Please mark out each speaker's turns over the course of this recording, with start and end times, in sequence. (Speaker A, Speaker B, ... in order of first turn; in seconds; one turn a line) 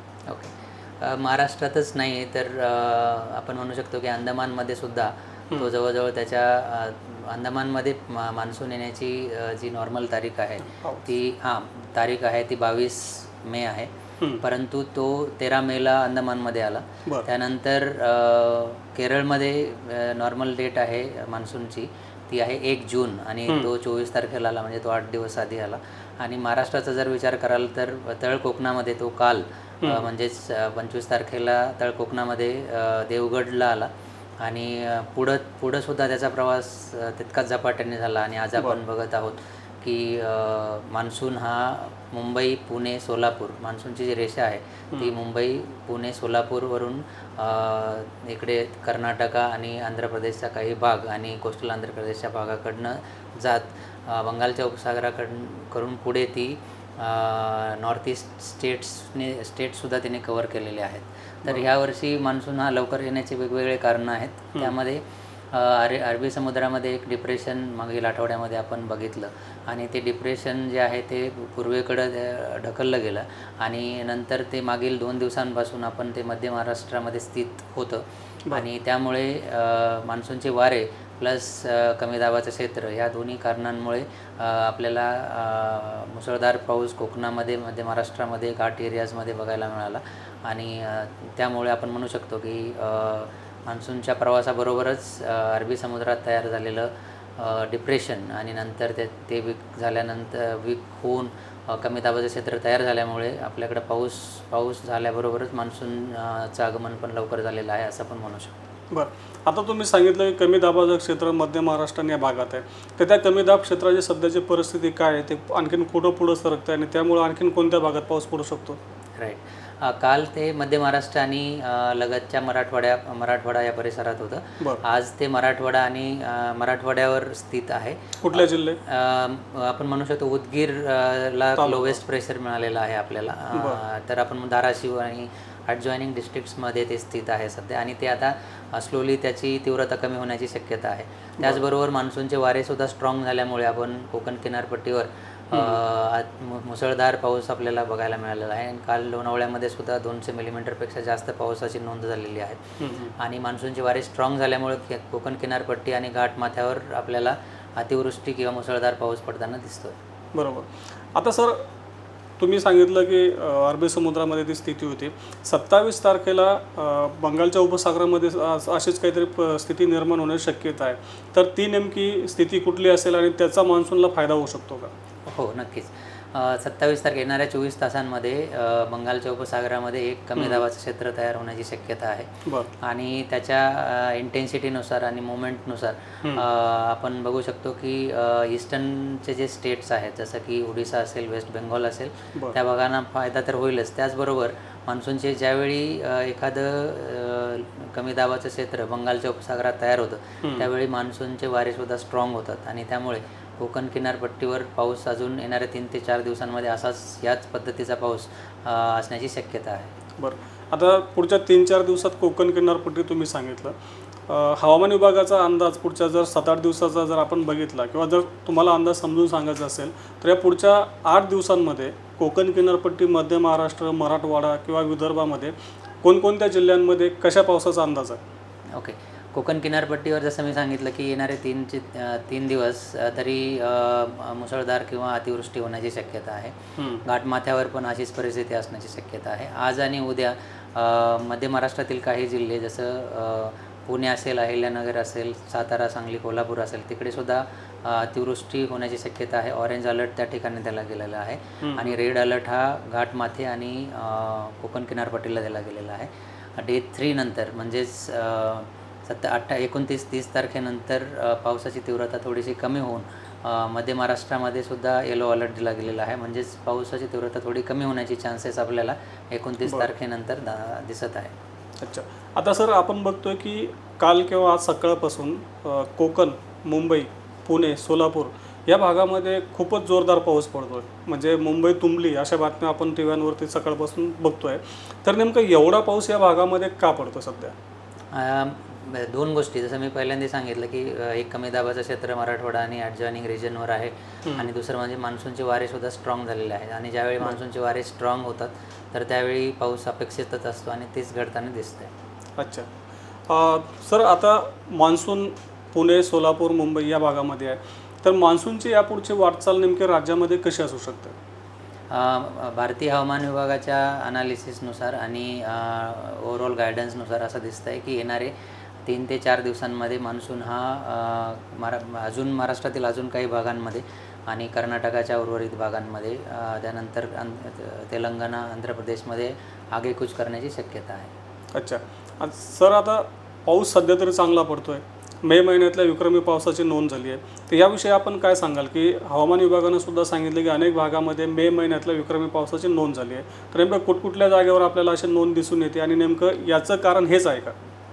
Speaker A: 0.3-13.9
Speaker B: 10.6-11.1
Speaker A: 14.4-33.9
Speaker B: 29.8-30.1
Speaker A: 34.4-108.5
Speaker B: 108.9-118.8
Speaker A: 119.2-152.6
Speaker B: 128.2-128.8
Speaker B: 131.6-132.0
Speaker B: 133.6-133.8
Speaker B: 145.5-145.8
Speaker B: 152.8-153.2
Speaker A: 153.2-160.0
Speaker B: 160.3-161.6
Speaker B: 162.4-174.9
Speaker A: 175.3-182.3
Speaker B: 180.4-180.7
Speaker B: 182.4-182.7
Speaker A: 182.8-209.9
Speaker B: 200.4-200.7
Speaker B: 210.2-213.8
Speaker B: 214.3-228.2
Speaker A: 228.8-271.3
Speaker B: 236.8-237.0
Speaker B: 251.6-251.9
Speaker B: 271.8-287.5
Speaker A: 288.1-301.9
Speaker B: 302.4-302.7
Speaker B: 303.3-311.1
Speaker A: 311.9-318.3
Speaker A: 318.9-331.1
Speaker B: 331.6-347.5